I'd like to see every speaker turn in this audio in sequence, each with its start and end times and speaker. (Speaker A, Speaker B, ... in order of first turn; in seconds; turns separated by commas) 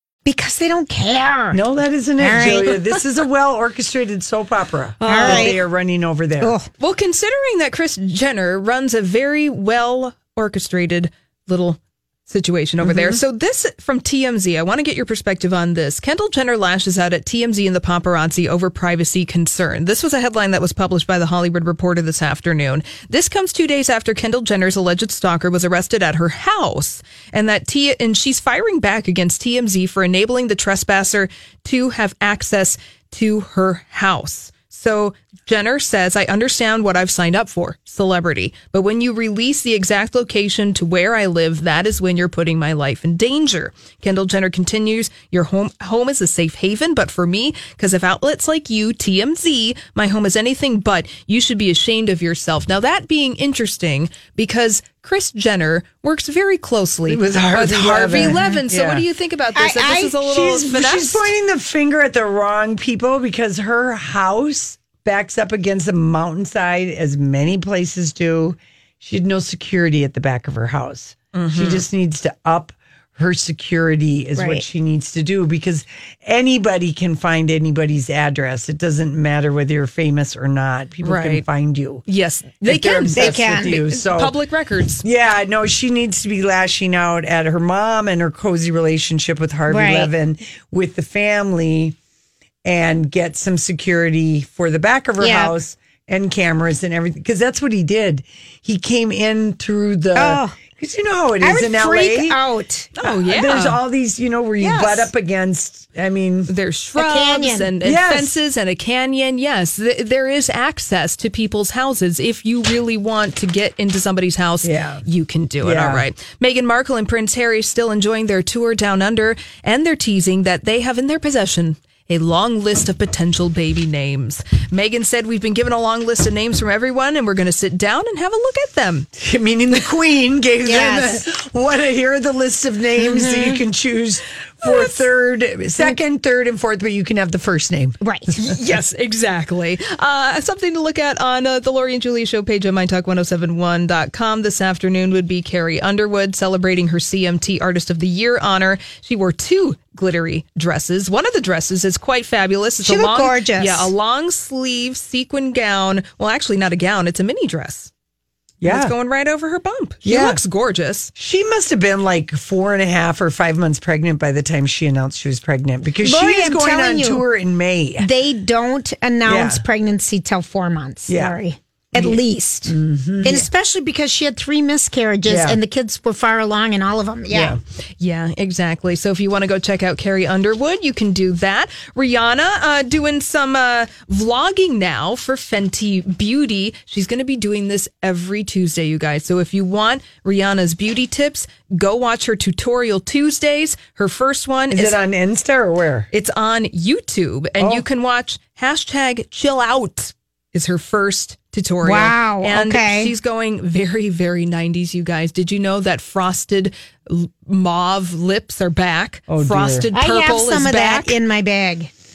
Speaker A: 0.3-1.6, Speaker B: 1.5-6.5, Speaker A: 2.2-2.8, Speaker C: 5.0-5.6, Speaker A: 5.0-5.6, Speaker A: 6.4-6.7, Speaker C: 6.8-61.3, Speaker B: 12.8-13.2, Speaker B: 57.1-59.0, Speaker A: 59.6-60.1, Speaker B: 60.2-82.0, Speaker C: 71.3-71.8, Speaker A: 74.4-74.6, Speaker C: 81.0-81.4, Speaker C: 82.1-85.0, Speaker B: 82.6-84.3, Speaker A: 83.2-83.8, Speaker B: 85.0-92.0, Speaker A: 89.7-90.1, Speaker B: 92.6-102.4, Speaker A: 95.2-95.5, Speaker A: 100.2-100.5, Speaker A: 101.4-102.9, Speaker C: 103.0-103.8, Speaker B: 103.0-106.5, Speaker C: 104.6-105.0, Speaker C: 106.5-129.1, Speaker A: 107.0-107.7, Speaker B: 107.8-108.4, Speaker B: 114.6-115.0, Speaker B: 115.6-116.1, Speaker B: 129.1-138.0, Speaker A: 130.6-131.2, Speaker A: 133.0-133.6, Speaker A: 138.0-138.5, Speaker C: 138.4-157.9, Speaker A: 152.8-153.9, Speaker B: 158.6-158.9, Speaker C: 158.7-161.1, Speaker B: 160.0-160.4, Speaker B: 161.2-168.1, Speaker A: 166.0-167.2, Speaker A: 168.0-177.6, Speaker B: 169.2-169.7, Speaker B: 171.1-171.4, Speaker B: 171.9-173.5, Speaker B: 175.3-175.6, Speaker B: 177.3-177.6, Speaker C: 178.0-195.0, Speaker B: 194.7-196.1, Speaker C: 196.1-211.2, Speaker B: 197.6-197.8, Speaker A: 201.8-203.1, Speaker B: 209.3-209.9, Speaker A: 209.9-211.9